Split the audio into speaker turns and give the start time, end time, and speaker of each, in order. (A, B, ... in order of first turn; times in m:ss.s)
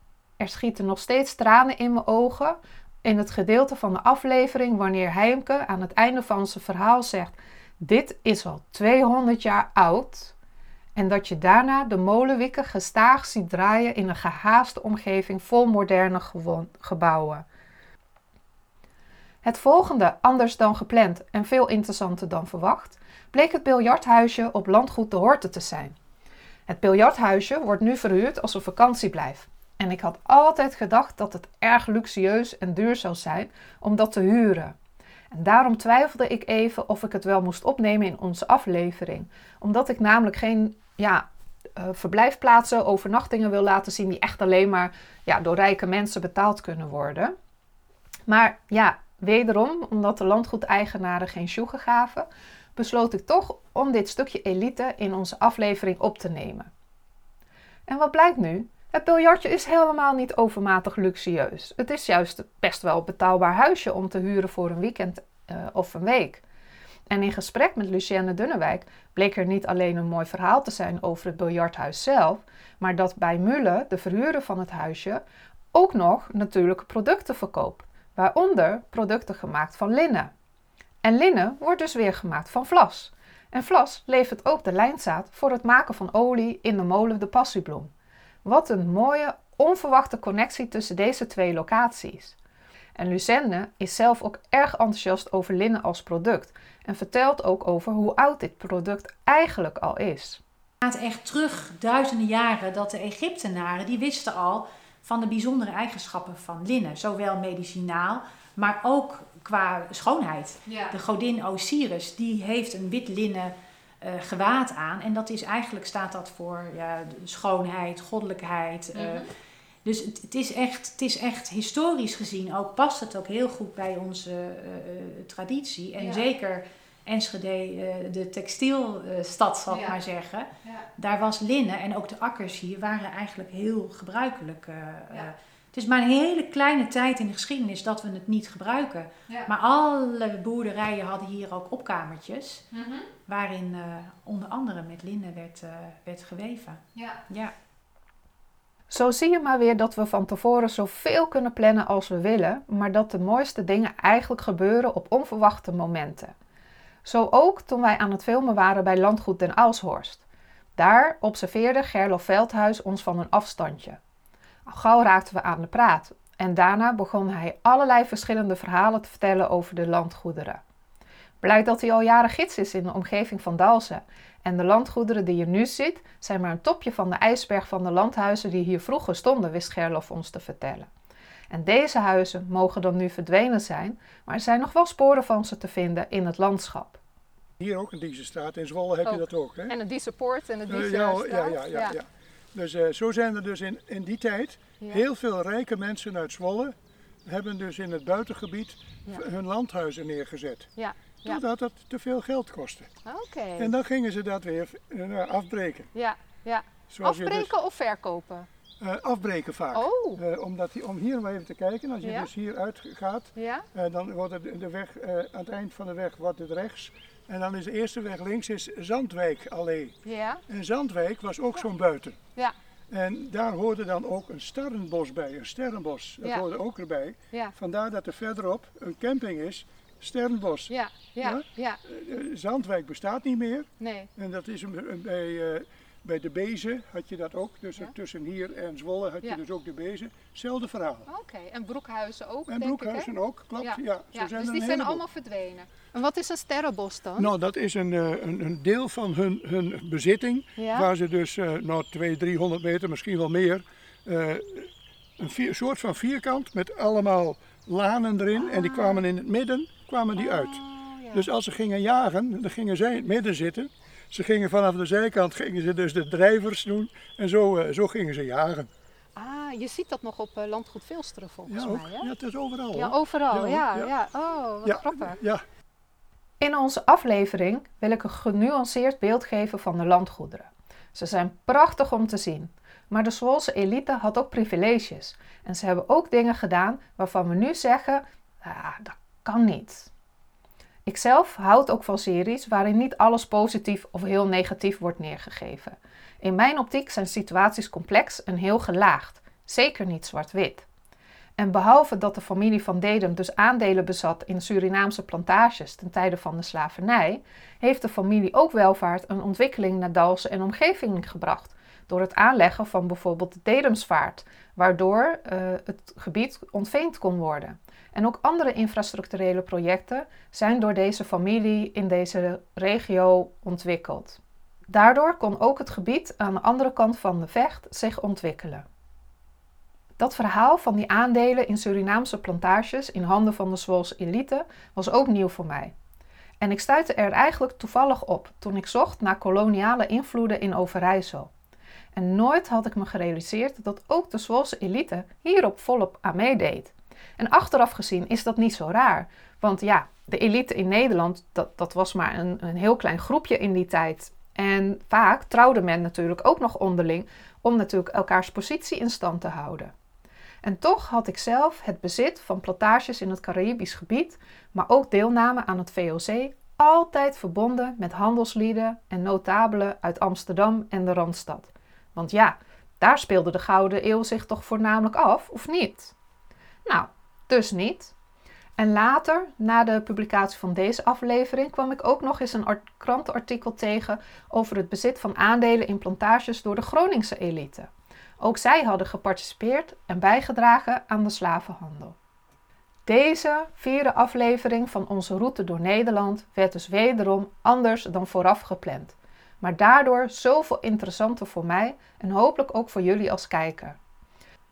0:00.4-0:10.3 A
0:11.0-0:17.4 A
0:19.4-0:26.0 A
0:26.7-0:34.8 A
0:35.3-0:47.4 A
0:48.3-0:56.7 A
0:57.9-1:06.4 A
1:07.1-1:15.2 A
1:15.7-1:20.3 A
1:21.0-1:27.9 A
1:28.4-1:32.4 A
1:33.0-1:40.4 A
1:40.8-1:59.2 B
1:50.7-1:51.0 A
1:59.0-1:59.3 A
1:59.8-2:22.7 B
2:06.0-2:06.2 A
2:09.7-2:10.0 A
2:22.7-2:23.1 A
2:23.3-2:27.5 B
2:27.0-2:27.2 A
2:28.9-2:36.3 A
2:37.0-2:40.2 A
2:40.8-2:44.0 A
2:44.7-2:50.6 A
2:51.4-3:00.9 A
3:01.5-3:07.0 A
3:07.6-3:09.8 C
3:09.0-3:12.0 A
3:10.7-3:16.8 C
3:17.3-3:20.7 C
3:20.8-3:21.4 A
3:21.3-3:22.9 C
3:23.0-3:23.7 A
3:23.6-3:25.9 C
3:25.9-3:28.5 A
3:26.9-3:27.5 C
3:28.8-3:40.0 C
3:29.7-3:30.2 A
3:32.0-3:32.3 A
3:33.4-3:33.6 A
3:40.0-3:40.4 A
3:40.5-3:42.2 C
3:42.9-4:01.1 C
3:50.7-3:51.8 A
3:53.8-3:54.1 A
4:01.1-4:07.3 A
4:02.5-4:05.0 C
4:07.2-4:20.6 C
4:10.6-4:10.9 A
4:18.4-4:19.0 A
4:20.2-4:21.3 A
4:21.1-4:28.7 C
4:29.2-4:32.1 A
4:31.5-4:33.9 C
4:32.7-4:35.2 A
4:34.6-4:35.4 C
4:36.4-4:49.9 A
4:50.9-5:00.7 A
5:01.4-5:28.6 A
5:30.0-5:35.7 A
5:36.4-5:41.3 A
5:41.9-5:59.7 A
6:00.4-6:16.0 A
6:16.7-6:17.9 A
6:18.6-6:32.0 A
6:32.9-6:43.8 A